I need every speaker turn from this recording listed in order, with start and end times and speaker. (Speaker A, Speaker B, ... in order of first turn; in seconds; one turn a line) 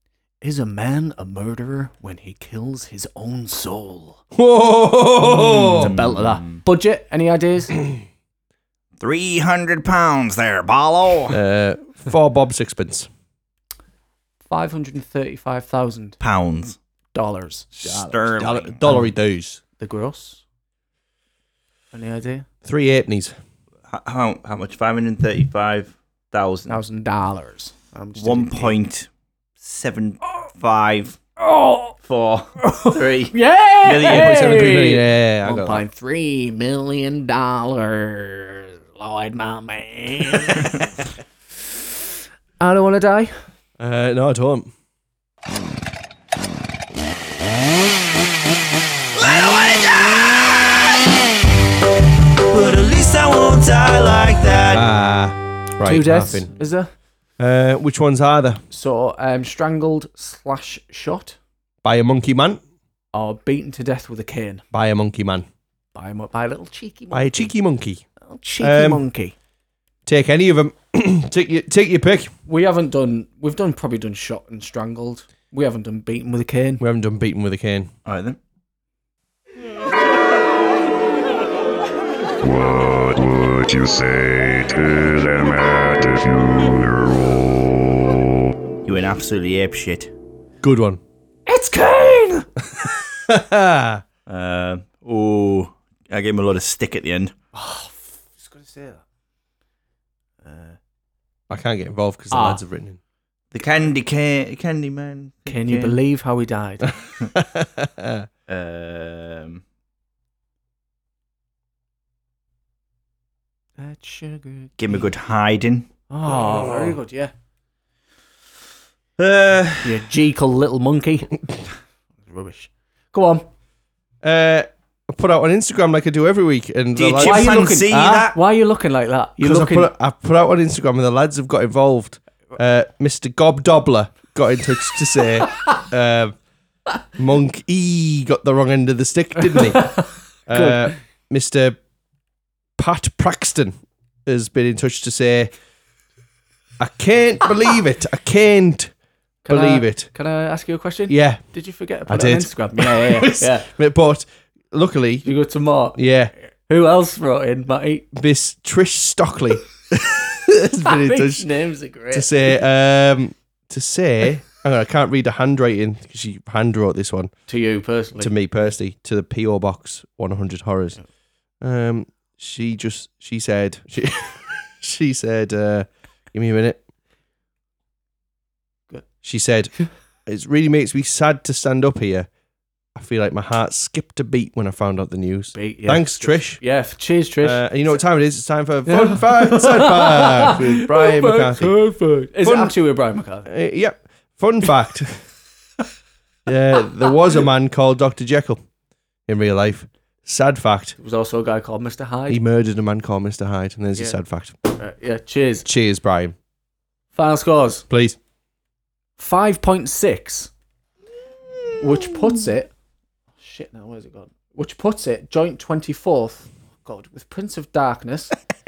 Speaker A: 0.4-4.2
Speaker B: 4.3-5.9
Speaker C: 5.3-6.6
Speaker A: 5.8-7.8
Speaker C: 9.0-11.4
Speaker B: 11.3-13.1
Speaker A: 14.5-16.2
Speaker C: 16.2-16.8
Speaker A: 17.1-17.8
Speaker C: 17.8-18.8
Speaker B: 17.9-19.6
Speaker A: 19.8-20.4
Speaker A: 21.9-22.5
Speaker B: 22.6-23.4
Speaker C: 23.9-26.8
Speaker A: 26.7-28.8
Speaker C: 28.2-29.1
Speaker C: 29.6-31.2
Speaker A: 31.4-31.9
Speaker C: 32.0-34.9
Speaker A: 32.6-40.8
Speaker B: 34.1-35.8
Speaker A: 42.6-43.3
Speaker B: 43.8-44.7
Speaker C: 49.1-51.1
Speaker C: 52.5-54.9
Speaker B: 54.7-56.5
Speaker A: 55.8-56.9
Speaker B: 57.4-58.6
Speaker A: 58.7-61.4
Speaker B: 61.8-62.6
Speaker A: 63.1-64.6
Speaker B: 64.7-65.5
Speaker A: 66.0-67.5
Speaker B: 67.1-68.0
Speaker A: 68.2-69.3
Speaker B: 68.6-69.0
Speaker B: 70.1-72.3
Speaker A: 72.5-76.8
Speaker B: 76.8-77.9
Speaker C: 78.1-78.4
Speaker D: 82.4-88.5
Speaker C: 88.8-90.1
Speaker B: 90.6-91.0
Speaker A: 91.5-92.5
Speaker B: 92.8-94.0
Speaker C: 94.3-97.3
Speaker A: 97.5-99.0
Speaker C: 100.5-100.8
Speaker B: 101.5-103.0
Speaker A: 102.3-102.6
Speaker C: 103.5-106.0
Speaker A: 105.5-106.9
Speaker B: 107.3-108.3
Speaker C: 108.5-109.6
Speaker A: 113.8-114.7
Speaker C: 114.8-115.9
Speaker A: 116.1-117.3
Speaker C: 119.2-120.0
Speaker A: 119.8-121.4
Speaker A: 122.2-123.5
Speaker B: 124.2-128.3
Speaker C: 127.0-128.4
Speaker A: 127.2-129.9
Speaker B: 129.4-136.3
Speaker B: 137.2-141.8
Speaker A: 139.7-140.0
Speaker A: 140.5-140.9
Speaker B: 142.8-143.8
Speaker B: 144.3-145.5
Speaker B: 146.8-148.9
Speaker A: 149.4-153.7
Speaker B: 149.5-150.1
Speaker B: 151.1-151.4
Speaker B: 152.1-155.3
Speaker A: 155.2-156.0
Speaker B: 156.0-156.3
Speaker A: 156.7-158.1
Speaker B: 158.1-161.5
Speaker A: 160.8-162.6
Speaker B: 162.1-167.3
Speaker A: 167.5-168.3
Speaker B: 168.2-171.0
Speaker B: 171.6-176.8
Speaker B: 179.2-179.7
Speaker B: 180.3-182.3
Speaker B: 182.9-186.6
Speaker A: 185.5-187.6
Speaker B: 187.4-191.8
Speaker A: 188.9-193.5
Speaker B: 192.4-192.7
Speaker B: 193.4-195.2
Speaker B: 196.5-198.6
Speaker B: 199.3-200.9
Speaker A: 201.0-202.4
Speaker B: 202.3-204.6
Speaker A: 204.8-205.7
Speaker B: 205.7-206.3
Speaker A: 207.2-207.8
Speaker B: 207.9-208.2
Speaker A: 209.2-210.5
Speaker A: 211.8-212.7
Speaker A: 213.4-218.3